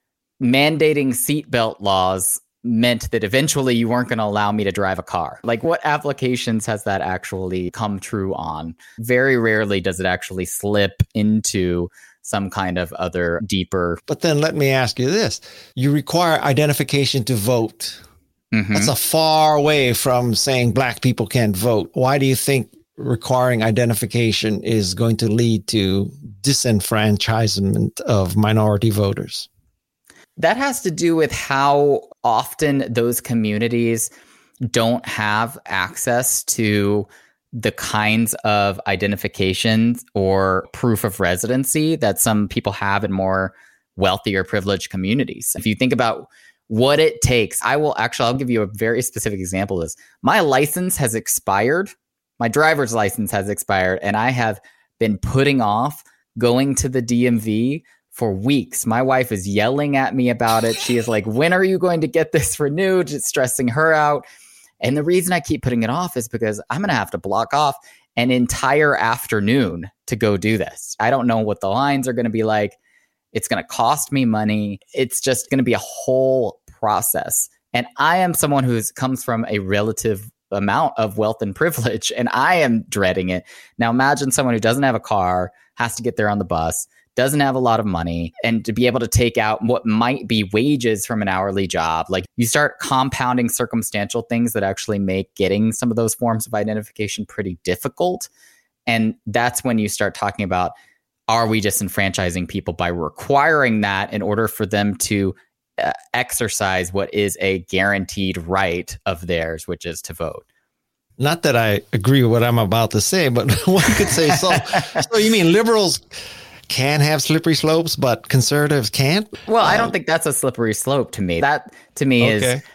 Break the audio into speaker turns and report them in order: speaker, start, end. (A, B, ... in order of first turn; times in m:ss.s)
0:00.4-0:14.0 A
0:14.1-0:18.0 B
0:18.5-0:18.9 A
0:18.7-0:29.5 B
0:30.4-0:34.1 A
0:34.7-1:04.2 A
1:04.8-1:12.8 A
1:13.3-1:38.3 A
1:38.9-1:40.7 A
1:41.3-1:50.4 A
1:51.2-1:59.9 B
1:59.5-2:02.6 A
2:02.2-2:02.6 B